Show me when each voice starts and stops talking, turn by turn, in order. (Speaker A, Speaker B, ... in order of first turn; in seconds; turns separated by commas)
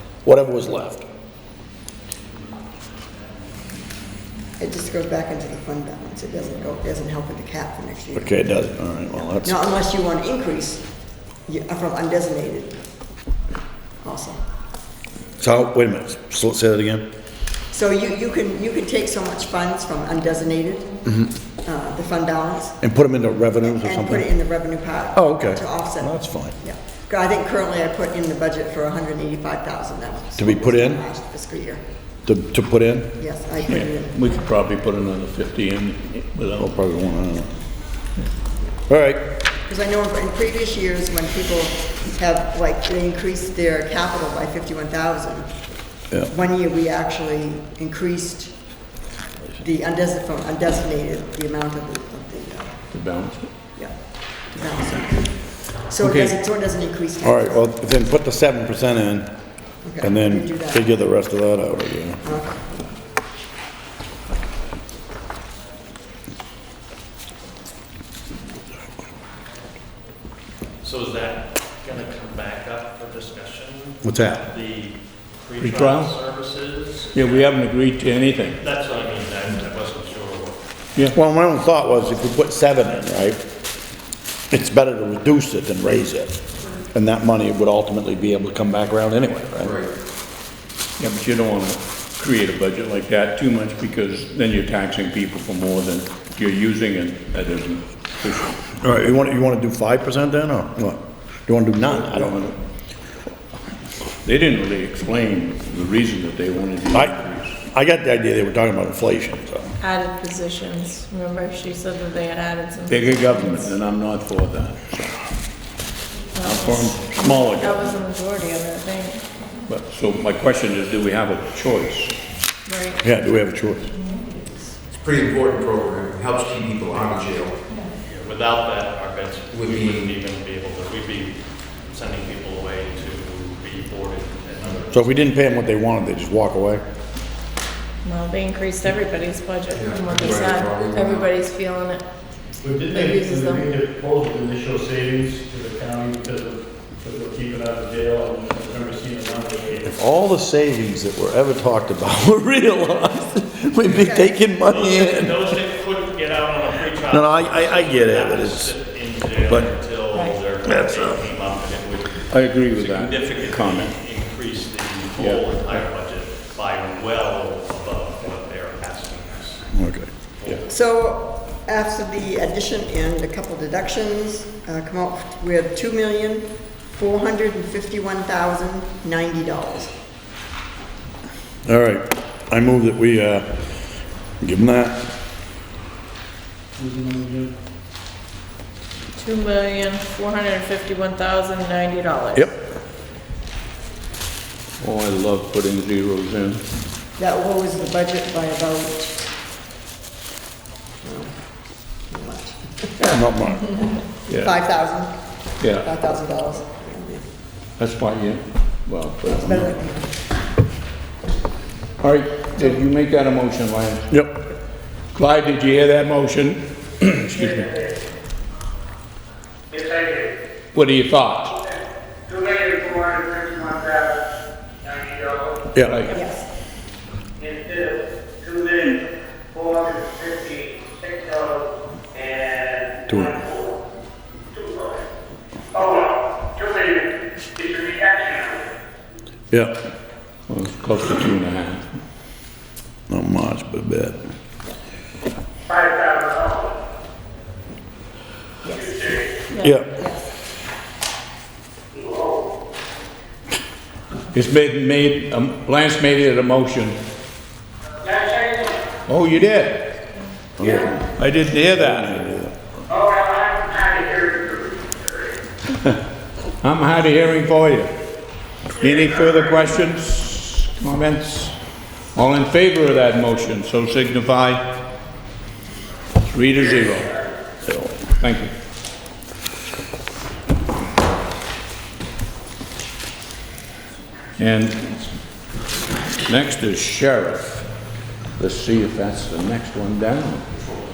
Speaker A: 0.2-1.1, Speaker B: 4.6-10.9, Speaker A: 8.2-9.6, Speaker B: 11.4-12.8, Speaker B: 14.0-14.4, Speaker A: 15.4-17.1, Speaker B: 17.7-20.9, Speaker B: 21.6-22.8, Speaker A: 22.8-24.3, Speaker B: 23.6-31.8, Speaker A: 25.1-26.5, Speaker A: 30.4-31.0, Speaker A: 32.3-33.2, Speaker B: 33.1-34.2, Speaker C: 33.6-36.7, Speaker A: 36.6-37.5, Speaker A: 38.9-39.2, Speaker B: 39.7-45.5, Speaker B: 46.3-48.6, Speaker B: 49.6-52.8, Speaker C: 52.9-53.5, Speaker B: 53.8-57.6, Speaker C: 56.0-56.3, Speaker A: 57.2-59.3, Speaker B: 59.8-60.9, Speaker A: 60.0-62.2, Speaker B: 62.2-62.8, Speaker D: 70.8-77.5, Speaker A: 74.0-74.5, Speaker C: 75.6-76.2, Speaker C: 77.1-78.6, Speaker D: 78.5-80.6, Speaker A: 81.1-83.4, Speaker A: 84.5-86.4, Speaker A: 86.9-89.8, Speaker E: 89.6-89.9, Speaker C: 91.0-98.6, Speaker A: 98.8-102.5, Speaker C: 104.2-107.6, Speaker A: 107.6-109.7, Speaker F: 109.8-113.7, Speaker C: 112.9-115.2, Speaker F: 116.3-119.2, Speaker C: 116.4-117.3, Speaker A: 117.2-117.9, Speaker C: 119.7-122.1, Speaker F: 122.7-123.0, Speaker A: 123.0-123.9, Speaker E: 124.9-127.6, Speaker D: 128.0-135.2, Speaker E: 129.5-130.2, Speaker A: 134.9-136.8, Speaker F: 138.0-142.0, Speaker E: 139.7-141.3, Speaker G: 142.6-150.0, Speaker F: 142.9-143.7, Speaker A: 149.9-155.4, Speaker B: 153.9-154.4, Speaker D: 154.7-169.7, Speaker A: 157.1-158.7, Speaker A: 160.7-161.2, Speaker C: 162.3-164.0, Speaker C: 165.2-165.8, Speaker A: 169.7-170.1, Speaker B: 170.6-179.9, Speaker A: 181.7-183.6, Speaker A: 184.4-185.0, Speaker G: 186.8-187.5, Speaker F: 189.2-192.5, Speaker C: 194.8-196.6, Speaker B: 197.2-199.3, Speaker B: 201.0-201.4, Speaker B: 202.1-205.1, Speaker A: 203.0-203.7, Speaker C: 205.6-205.9, Speaker B: 205.8-207.2, Speaker C: 207.8-209.6, Speaker B: 209.3-210.1, Speaker C: 212.0-214.0, Speaker C: 215.2-217.7, Speaker H: 219.8-220.2, Speaker C: 220.7-221.6, Speaker H: 222.3-224.1, Speaker C: 225.8-226.1, Speaker B: 226.1-226.5, Speaker H: 227.5-227.9, Speaker H: 228.5-229.0, Speaker H: 229.6-231.6, Speaker H: 232.2-233.1, Speaker A: 233.1-233.4, Speaker H: 236.6-237.1, Speaker H: 237.6-238.6, Speaker C: 240.5-241.8, Speaker A: 243.1-244.2, Speaker H: 245.7-246.7, Speaker B: 248.7-248.9, Speaker A: 249.6-249.9, Speaker B: 250.0-250.2, Speaker H: 252.0-252.4, Speaker C: 254.3-257.0, Speaker H: 258.1-258.8, Speaker C: 259.1-259.8, Speaker A: 260.6-260.9, Speaker C: 261.2-262.2, Speaker A: 261.7-262.5, Speaker H: 263.0-265.3, Speaker C: 266.6-268.0, Speaker C: 268.8-271.6, Speaker C: 272.2-274.7, Speaker C: 276.2-277.1, Speaker C: 278.1-278.5, Speaker C: 284.4-285.1, Speaker C: 286.3-287.7, Speaker C: 288.4-290.7